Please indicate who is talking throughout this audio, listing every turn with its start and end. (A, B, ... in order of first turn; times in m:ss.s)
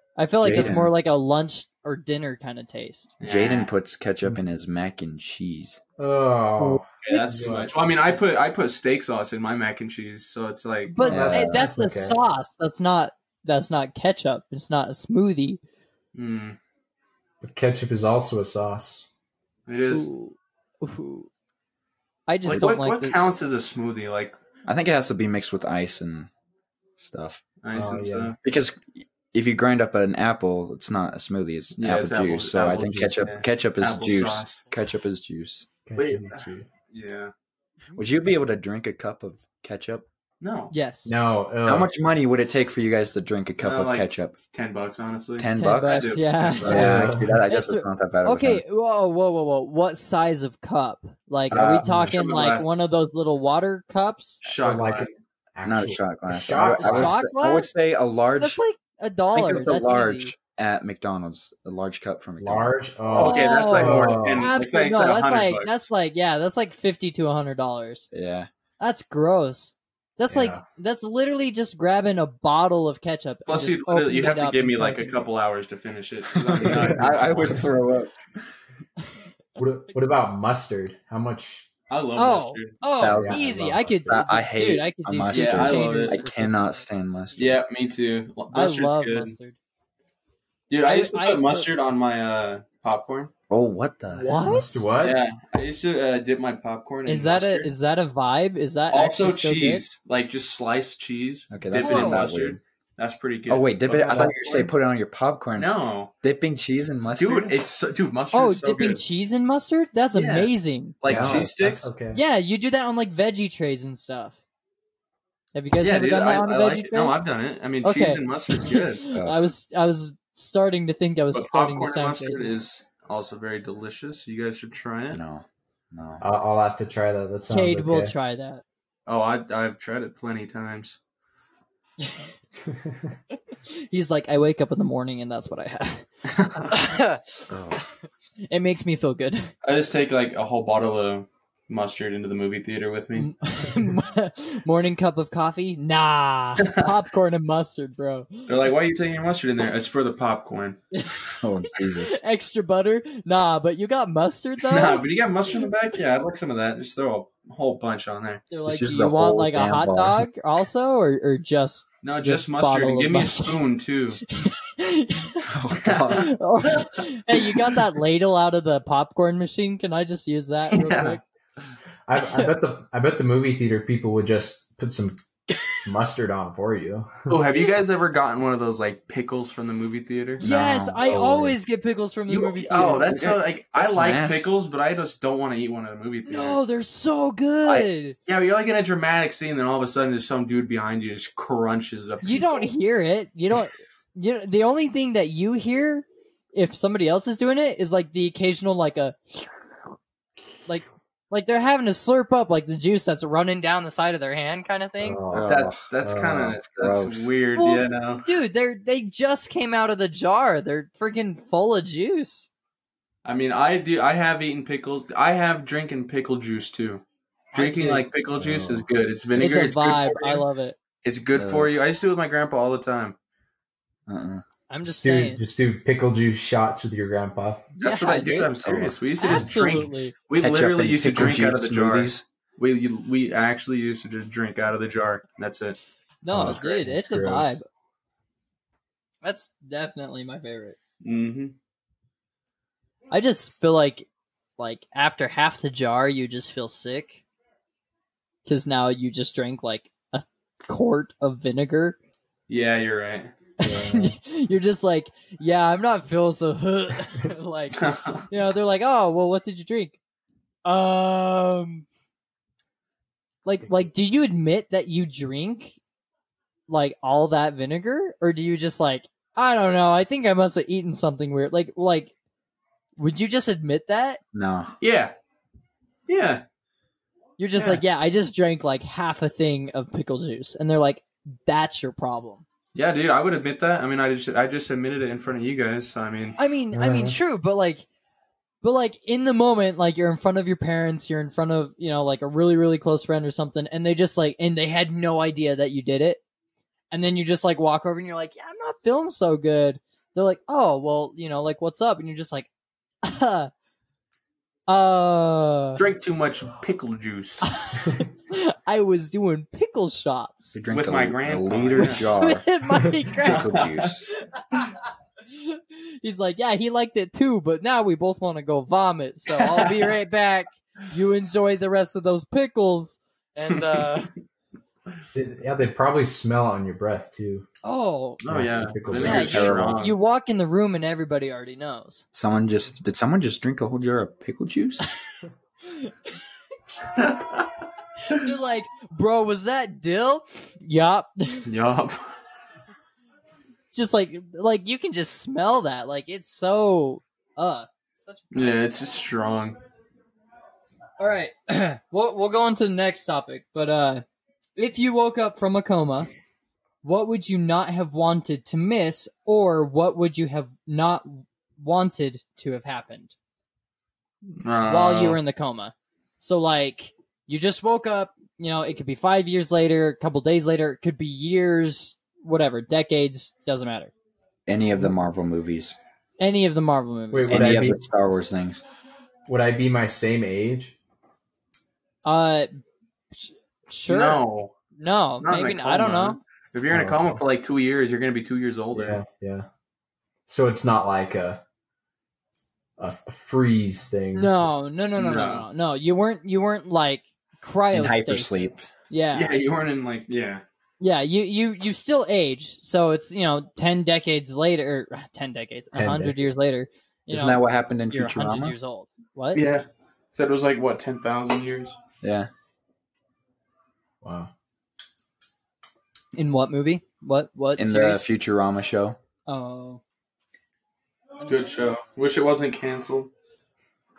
0:00.2-0:03.1 A
0:00.4-0:00.9 B
0:00.4-0:00.8 C
0:03.2-0:03.7 D
0:03.2-0:05.8 B
0:06.0-0:07.7 C
0:06.6-0:07.6 A
0:07.0-0:11.1 D
0:10.9-0:15.6 A
0:11.0-0:12.2 C
0:11.0-0:11.6 B
0:16.1-0:16.6 D
0:17.4-0:19.1 C
0:19.7-0:20.1 D
0:19.9-0:21.3 A
0:22.3-0:23.2 A
0:22.4-0:24.4 D
0:24.6-0:26.3 B
0:27.0-0:27.4 B
0:27.6-0:28.4 D
0:27.7-0:28.3 C
0:28.4-0:35.7 B
0:31.8-0:34.7 D
0:32.8-0:33.1 C
0:35.8-0:36.7 C
0:36.0-0:37.3 D
0:38.0-0:40.0 B
0:40.4-0:40.7 D
0:40.7-0:41.1 A
0:41.0-0:41.9 C
0:41.6-0:44.3 B
0:43.6-0:47.1 D
0:45.4-0:48.6 B
0:45.6-0:54.4 A
0:46.6-0:47.4 C
0:51.5-0:51.9 B
0:51.8-0:52.1 C
0:51.9-0:52.7 D
0:54.4-0:55.1 D
0:54.6-0:57.3 C
0:55.6-0:58.6 B
0:56.8-0:57.7 A
0:58.4-1:00.3 A
0:59.3-1:02.8 B
1:02.4-1:04.5 C
1:03.1-1:05.8 D
1:03.2-1:08.1 A
1:08.1-1:08.5 B
1:08.8-1:15.2 A
1:10.3-1:10.6 C
1:13.5-1:17.8 D
1:16.3-1:18.5 B
1:16.6-1:17.6 C
1:19.6-1:21.7 C
1:21.9-1:22.8 D
1:22.2-1:27.6 A
1:23.0-1:27.6 B
1:23.0-1:24.1 C
1:25.3-1:26.2 D
1:27.4-1:29.3 D
1:28.5-1:29.6 A
1:30.7-1:33.3 D
1:30.8-1:31.7 A
1:33.5-1:34.4 B
1:34.1-1:34.8 A
1:34.3-1:35.2 C
1:35.0-1:37.7 D
1:37.1-1:39.8 A
1:38.9-1:44.7 D
1:41.5-1:42.6 B
1:41.8-1:42.3 A
1:43.5-1:45.7 B
1:44.0-1:44.5 C
1:45.6-1:46.1 D
1:46.2-1:47.6 B
1:47.2-1:49.0 D
1:48.3-1:51.0 A
1:50.1-1:50.5 D
1:51.0-1:51.9 D
1:51.0-1:52.2 C
1:51.1-1:51.5 B
1:52.1-1:54.4 A
1:55.5-1:57.2 A
1:55.8-1:59.0 D
1:57.8-2:02.5 A
1:59.1-1:59.5 B
2:01.3-2:05.2 D
2:05.1-2:06.2 B
2:06.2-2:08.1 C
2:07.5-2:08.6 A
2:09.1-2:11.0 D
2:12.0-2:12.3 A
2:12.7-2:12.9 C
2:13.7-2:16.1 A
2:16.3-2:16.8 D
2:16.7-2:17.2 A
2:17.5-2:17.8 B
2:18.5-2:19.5 A
2:19.6-2:23.3 D
2:23.2-2:28.5 A
2:26.6-2:26.9 D
2:28.5-2:30.8 D
2:30.9-2:35.0 A
2:31.3-2:32.2 B
2:34.6-2:38.4 D
2:38.5-2:43.6 A
2:38.6-2:40.2 B
2:42.0-2:44.2 D
2:44.2-2:45.5 A
2:45.4-2:46.3 B
2:45.8-2:47.0 D
2:46.1-2:51.2 A
2:47.5-2:47.8 D
2:50.7-2:51.2 D
2:52.1-2:55.2 C
2:55.8-2:57.4 C
2:57.3-3:00.4 D
3:00.4-3:03.1 A
3:00.4-3:01.5 B
3:01.0-3:01.5 C
3:02.3-3:06.6 D
3:02.7-3:04.5 B
3:06.2-3:08.2 A
3:08.2-3:12.7 D
3:12.2-3:19.5 A
3:20.6-3:25.2 A
3:25.0-3:26.5 C
3:25.3-3:25.7 B
3:25.5-3:28.3 D
3:26.3-3:27.3 B
3:27.6-3:32.5 A
3:33.2-3:40.4 D
3:37.5-3:38.1 A
3:38.4-3:38.8 B
3:39.4-3:39.7 B
3:39.4-3:40.8 A
3:41.0-3:43.2 D
3:41.3-3:41.7 B
3:44.1-3:44.4 B
3:44.7-3:45.4 A
3:44.8-3:47.7 C
3:47.8-3:48.5 A
3:47.8-3:55.8 D
3:48.6-3:49.0 B
3:49.2-3:50.1 A
3:50.4-3:52.2 B
3:56.2-3:57.6 A
3:56.3-3:57.6 C
3:56.3-3:56.9 B
3:59.2-4:00.8 A
4:01.0-4:01.6 D
4:03.1-4:07.2 A
4:08.4-4:12.0 A
4:12.5-4:13.3 D
4:13.6-4:20.0 A
4:13.6-4:14.2 C
4:17.7-4:18.2 D
4:20.6-4:21.8 A
4:23.4-4:25.8 A
4:26.7-4:32.1 A
4:33.0-4:34.2 A
4:34.3-4:34.7 B
4:34.8-4:35.1 D
4:36.1-4:36.4 D
4:37.4-4:42.4 A
4:42.7-4:46.5 D
4:46.4-4:47.8 A
4:46.7-4:47.2 C
4:48.6-4:56.2 A
4:56.9-5:02.5 A
5:03.0-5:03.5 A
5:04.7-5:05.8 A
5:05.8-5:07.5 D
5:07.4-5:10.6 A
5:10.5-5:12.5 B
5:10.7-5:12.2 D
5:11.8-5:13.6 A
5:13.2-5:14.0 B
5:13.2-5:13.9 D
5:14.2-5:14.8 A
5:15.3-5:24.1 A
5:19.4-5:19.8 D
5:23.5-5:24.0 D
5:25.1-5:27.5 C
5:27.6-5:28.2 A
5:28.2-5:30.0 D
5:28.2-5:29.6 C
5:28.9-5:29.8 B
5:29.0-5:32.0 A
5:32.1-5:34.8 B
5:35.6-5:36.2 A
5:36.9-5:37.5 D
5:38.0-5:41.5 A
5:41.4-5:42.0 D
5:43.7-5:48.6 A
5:48.3-5:49.6 D
5:51.0-5:54.0 A
5:54.6-5:56.1 A
5:56.8-6:03.1 A
6:04.3-6:05.2 D
6:04.7-6:13.9 A
6:14.4-6:15.7 B
6:16.2-6:17.7 A
6:17.1-6:17.8 C
6:17.3-6:18.6 B
6:19.2-6:20.7 C
6:22.0-6:22.6 A
6:23.1-6:24.2 A
6:23.9-6:24.5 D
6:24.8-6:26.2 A
6:25.2-6:29.0 D
6:26.7-6:27.2 C
6:28.7-6:29.5 C
6:30.3-6:31.4 C
6:32.8-6:34.3 C
6:34.1-6:39.3 A
6:35.0-6:35.5 D
6:37.7-6:38.7 B
6:39.1-6:40.4 D
6:40.8-6:49.4 A
6:45.7-6:46.2 C
6:47.1-6:48.5 B
6:49.3-6:51.8 D
6:52.0-6:52.3 B
6:54.0-6:54.3 C
6:56.1-6:58.0 A
6:57.6-6:59.0 B
6:59.3-6:59.8 A
7:01.2-7:03.1 D